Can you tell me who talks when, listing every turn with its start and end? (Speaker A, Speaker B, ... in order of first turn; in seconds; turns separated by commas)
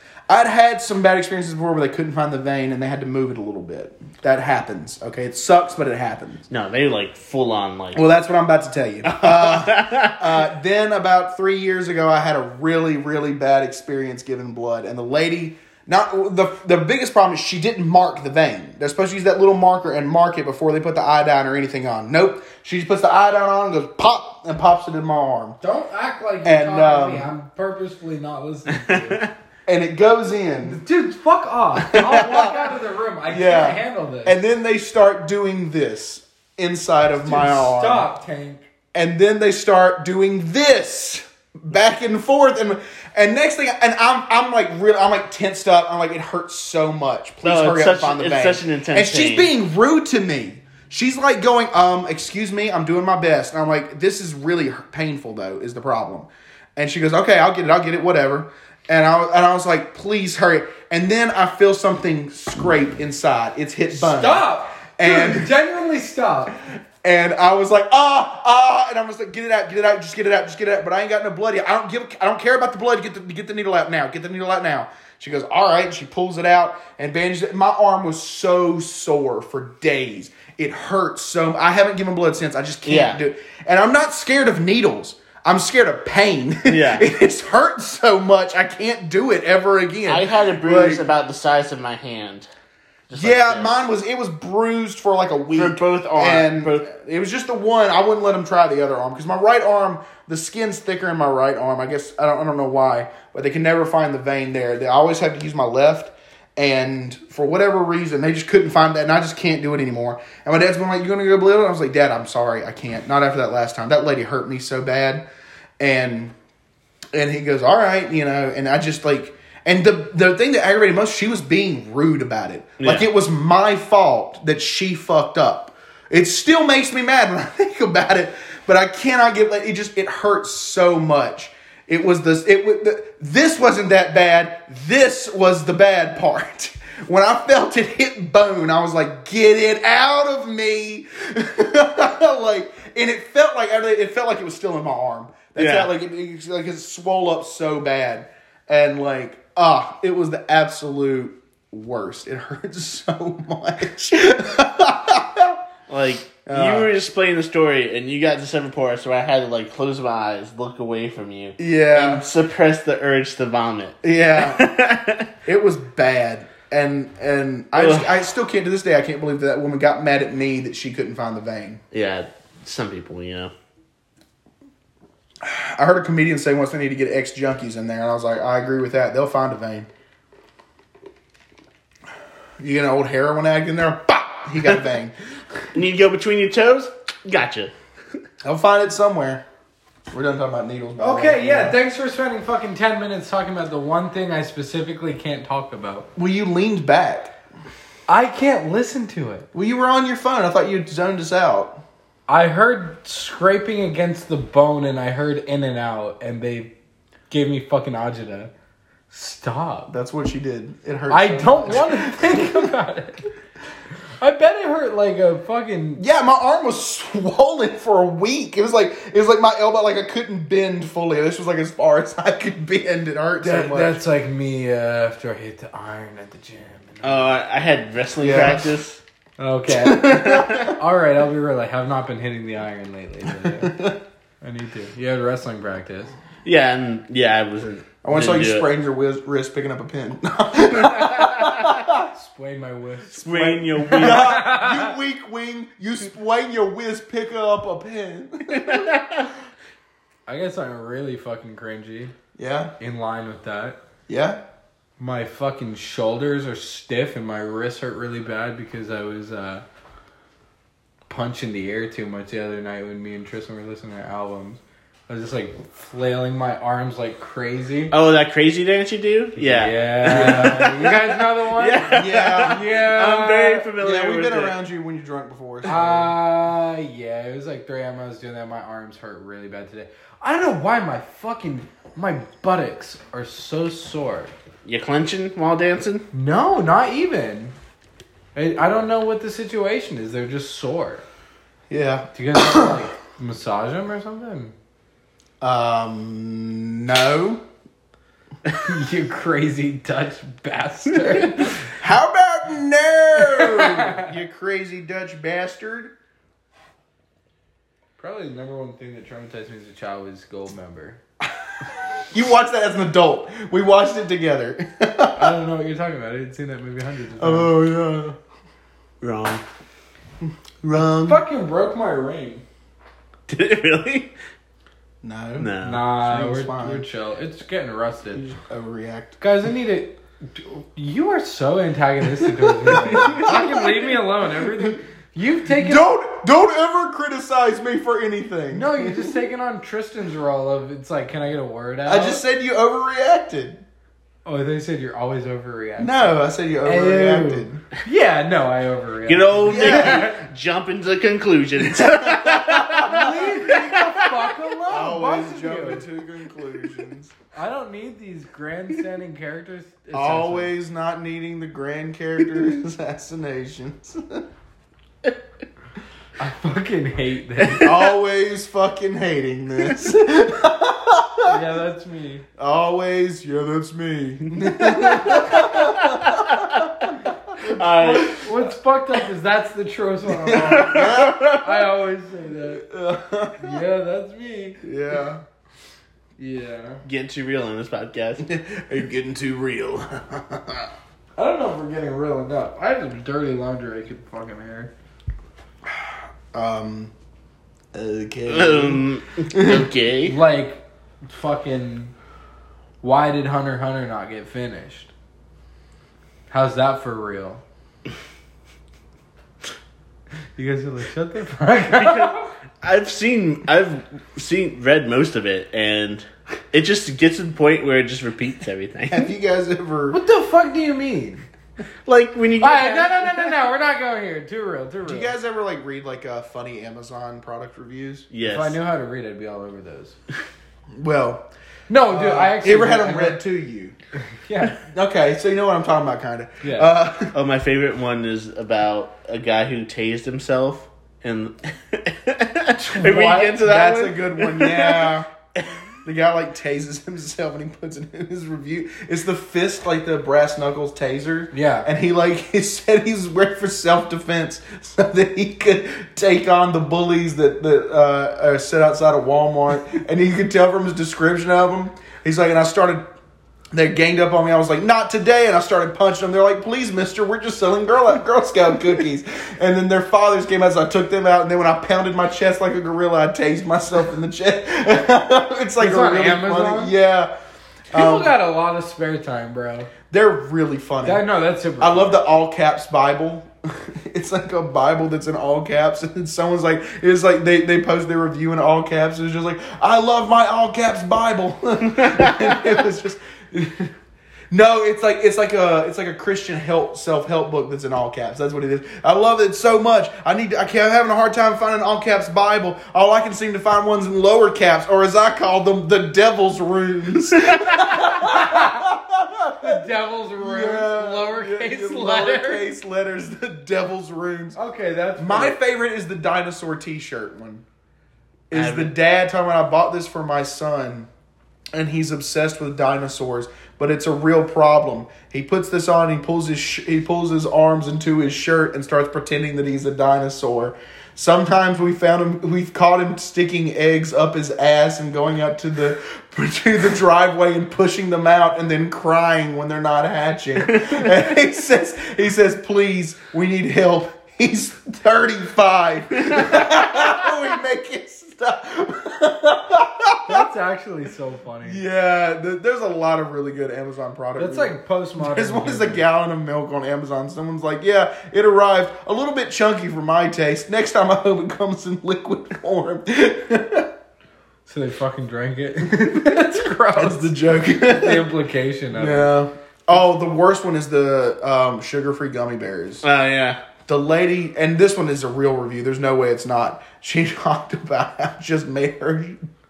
Speaker A: 0.3-6.5, Speaker B: 6.5-8.0, Speaker A: 7.9-25.6, Speaker B: 9.1-10.2, Speaker C: 25.6-29.2, Speaker A: 26.4-27.3, Speaker B: 28.7-29.3, Speaker A: 29.7-30.8, Speaker C: 30.6-34.4, Speaker A: 31.9-32.6, Speaker A: 33.3-38.1, Speaker C: 37.2-38.6, Speaker A: 38.9-64.5, Speaker B: 47.4-49.5, Speaker C: 63.9-66.5, Speaker A: 65.0-65.5, Speaker A: 67.0-91.0, Speaker B: 82.9-83.2, Speaker B: 86.7-87.1, Speaker B: 90.1-92.5, Speaker B: 93.1-93.8, Speaker A: 93.2-115.2, Speaker B: 95.5-96.9, Speaker A: 115.8-116.3, Speaker A: 117.1-155.6, Speaker B: 122.8-123.1, Speaker B: 145.6-145.9, Speaker B: 155.9-165.3, Speaker A: 156.4-156.9, Speaker A: 161.6-162.2, Speaker A: 164.0-164.7, Speaker A: 165.4-171.8, Speaker B: 167.8-168.2, Speaker B: 171.9-173.5, Speaker A: 175.4-179.9, Speaker A: 182.6-185.2, Speaker B: 185.7-187.7, Speaker A: 188.4-189.4, Speaker A: 190.1-191.8, Speaker C: 191.0-196.1, Speaker A: 196.2-197.3, Speaker C: 198.1-199.5, Speaker A: 199.5-201.8, Speaker C: 202.3-206.7, Speaker C: 207.3-208.5, Speaker C: 209.1-209.9, Speaker A: 209.9-212.7, Speaker C: 211.1-213.3, Speaker C: 214.2-216.0, Speaker A: 216.0-224.0, Speaker C: 223.4-227.3, Speaker B: 227.0-229.0, Speaker A: 228.2-228.7, Speaker C: 229.4-233.8, Speaker A: 229.8-230.7, Speaker B: 230.1-230.7, Speaker A: 233.3-234.0, Speaker C: 234.4-236.1, Speaker B: 236.4-238.7, Speaker A: 238.0-242.1, Speaker B: 240.8-241.7, Speaker C: 242.1-244.9, Speaker B: 243.1-244.4, Speaker A: 243.9-248.9, Speaker B: 248.5-249.3, Speaker C: 250.3-252.1, Speaker A: 252.4-252.7, Speaker C: 252.8-253.8, Speaker A: 254.1-254.4, Speaker C: 255.0-259.6, Speaker C: 261.1-267.9, Speaker B: 267.9-274.6, Speaker C: 269.4-273.7, Speaker A: 270.1-270.7, Speaker A: 271.9-272.7, Speaker A: 273.8-276.1, Speaker C: 275.6-284.3, Speaker B: 284.6-286.1, Speaker C: 286.1-287.6, Speaker C: 288.4-291.0, Speaker A: 291.7-292.8, Speaker C: 292.1-294.6, Speaker A: 295.4-297.4, Speaker C: 298.5-301.8, Speaker A: 301.7-305.9, Speaker C: 303.2-304.1, Speaker C: 308.0-311.0, Speaker A: 312.1-315.4, Speaker C: 315.2-317.5, Speaker A: 317.2-318.2, Speaker B: 319.0-319.4, Speaker A: 320.2-321.2, Speaker C: 321.0-322.4, Speaker B: 323.3-324.1, Speaker A: 325.0-326.9, Speaker B: 325.4-325.8, Speaker C: 325.6-328.4, Speaker A: 328.5-329.2, Speaker C: 329.2-335.9, Speaker A: 332.4-334.7, Speaker B: 332.7-333.3, Speaker A: 335.5-339.2, Speaker C: 338.5-342.2, Speaker A: 341.9-343.6, Speaker C: 344.2-350.2, Speaker A: 345.8-347.6, Speaker B: 349.1-354.4, Speaker A: 349.5-350.1, Speaker A: 351.6-353.6, Speaker C: 352.9-355.9, Speaker A: 354.7-357.1, Speaker C: 357.3-360.5, Speaker A: 359.9-364.2, Speaker C: 366.2-367.7, Speaker A: 367.6-371.4, Speaker C: 371.2-372.2, Speaker A: 372.4-378.0, Speaker B: 374.6-378.3, Speaker C: 374.9-375.2, Speaker C: 377.8-382.6, Speaker A: 380.1-381.2, Speaker B: 380.4-381.7, Speaker A: 382.5-383.6, Speaker C: 383.4-384.6, Speaker A: 384.6-385.2, Speaker C: 386.2-386.8, Speaker B: 386.9-388.2, Speaker A: 388.2-390.7, Speaker C: 391.2-394.7, Speaker A: 395.7-396.9, Speaker A: 397.7-399.7, Speaker B: 398.3-400.1, Speaker C: 400.1-401.9, Speaker C: 402.8-404.9, Speaker C: 406.3-407.4, Speaker C: 410.4-412.3, Speaker B: 411.7-419.1, Speaker A: 418.9-420.0, Speaker C: 419.9-421.3, Speaker B: 421.9-423.3, Speaker C: 422.4-425.1, Speaker A: 424.9-428.1, Speaker B: 428.1-428.6, Speaker C: 428.2-430.0, Speaker A: 430.8-431.2, Speaker C: 431.7-433.2, Speaker A: 431.9-433.8, Speaker C: 434.2-434.6, Speaker A: 434.7-437.1, Speaker C: 436.4-436.7, Speaker B: 437.1-445.6, Speaker C: 442.6-443.4, Speaker A: 443.2-445.1, Speaker A: 445.8-462.8, Speaker C: 451.3-451.7, Speaker A: 463.5-477.1, Speaker C: 475.6-476.7, Speaker A: 477.7-478.1, Speaker C: 477.7-479.7, Speaker A: 479.9-481.0, Speaker C: 480.8-482.0, Speaker A: 481.6-493.7, Speaker B: 491.8-492.3, Speaker A: 494.3-509.7, Speaker C: 507.9-508.7, Speaker C: 509.4-512.4, Speaker A: 510.2-514.4, Speaker C: 514.4-515.4, Speaker A: 515.0-517.4, Speaker A: 518.3-520.9, Speaker B: 518.3-518.7, Speaker A: 521.5-550.3, Speaker B: 540.5-540.9, Speaker B: 546.1-546.8, Speaker C: 550.1-551.6, Speaker A: 551.4-563.7, Speaker C: 554.2-555.9, Speaker C: 564.5-569.1, Speaker A: 565.6-568.1, Speaker A: 568.7-572.8, Speaker B: 572.8-573.4, Speaker A: 573.7-579.2